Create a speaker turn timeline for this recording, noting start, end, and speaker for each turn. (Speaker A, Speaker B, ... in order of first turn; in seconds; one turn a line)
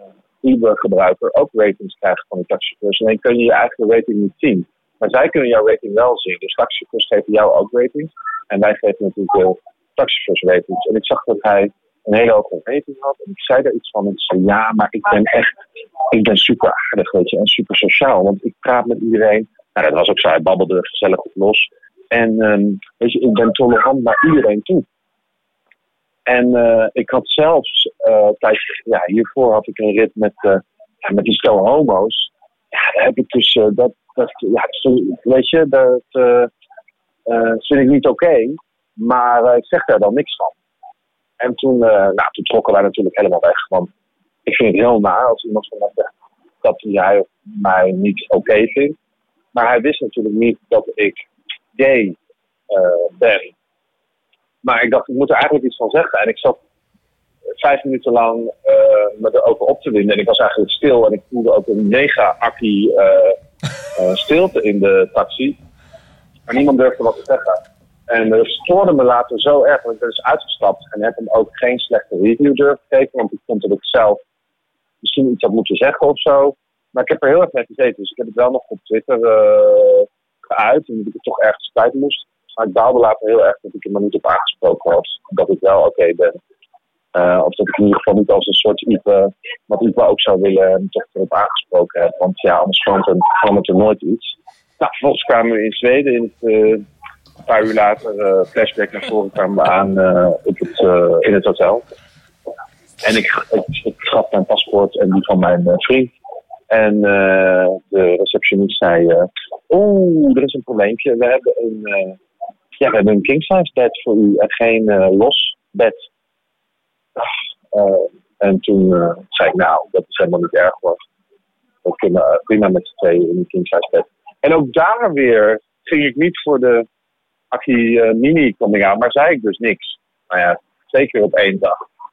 Speaker A: 0.4-15.5
Speaker A: 16.1-24.8
Speaker A: 26.3-36.5
Speaker A: 37.3-40.5
Speaker A: 41.4-43.9
Speaker A: 44.5-46.1
Speaker A: 46.6-49.0
Speaker A: 49.5-51.2
Speaker A: 51.8-52.1
Speaker A: 52.7-53.5
Speaker A: 54.6-56.6
Speaker A: 57.6-63.4
Speaker A: 64.0-65.6
Speaker A: 66.5-74.2
Speaker A: 75.0-86.4
Speaker A: 87.1-96.8
Speaker A: 97.5-101.8
Speaker A: 103.0-106.1
Speaker A: 106.7-112.2
Speaker A: 112.8-116.0
Speaker A: 117.2-121.0
Speaker A: 121.8-126.8
Speaker A: 127.5-131.7